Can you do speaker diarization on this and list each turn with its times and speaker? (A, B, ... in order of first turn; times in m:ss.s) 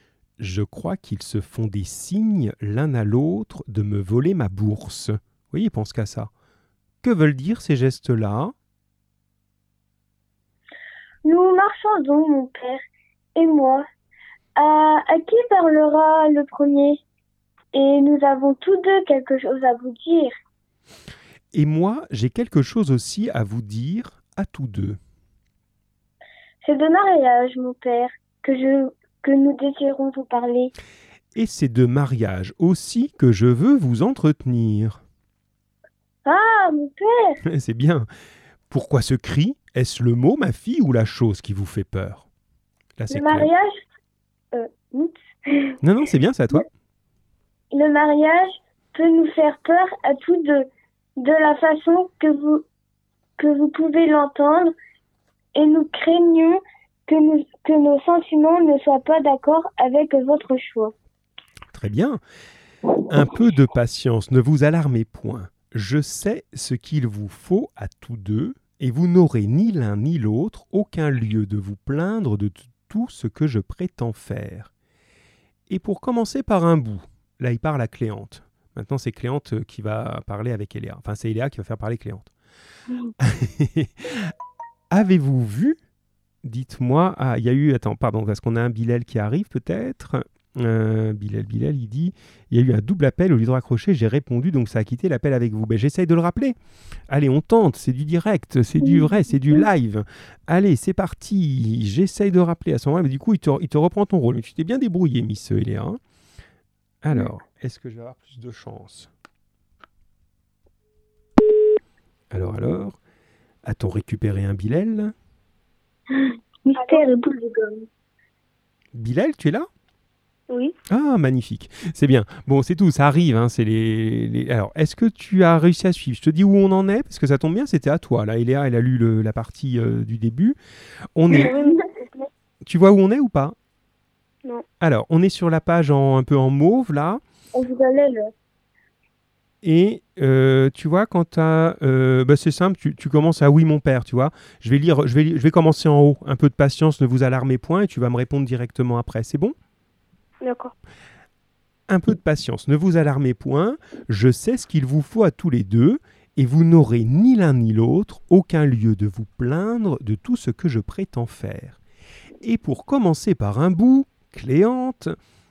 0:00.4-0:06.3 A
0:07.0-0:08.5 A
0:11.2-0:12.8 B
0:13.4-0:13.8 B
0:14.6-0:17.0 B
0:17.7-0:20.3 B
0:21.5-0:25.0 A
0:26.6-0:30.7 B
0:31.3-0:35.0 A
0:36.2-0:37.4 B
0:37.4-0:38.1 A
0:38.7-0:42.2 A
0:43.0-0:43.5 A
0:43.1-0:43.8 B
0:44.5-0:45.2 B
0:45.8-0:46.7 A
0:47.7-0:50.7 B
0:51.2-0:52.6 B
0:53.4-0:54.7 B
0:55.5-1:00.9 B
1:01.7-1:02.2 A
1:03.1-1:14.7 A
1:15.7-1:22.3 A
1:23.2-1:24.3 A
1:24.9-1:25.8 A
1:26.4-1:36.6 A
1:37.1-1:46.0 A
1:47.0-1:49.1 A
1:52.3-1:53.0 A
1:53.6-1:55.1 A
1:56.7-1:57.8 B
1:58.9-1:59.7 A
2:00.5-2:00.8 B
2:00.9-2:10.6 A
2:11.1-2:11.5 A
2:11.3-2:12.3 B
2:12.6-2:13.5 A
2:14.8-2:17.2 A
2:17.5-2:18.3 B
2:19.6-2:29.5 A
2:30.4-2:30.7 B
2:31.9-2:41.8 A
2:42.4-2:45.2 A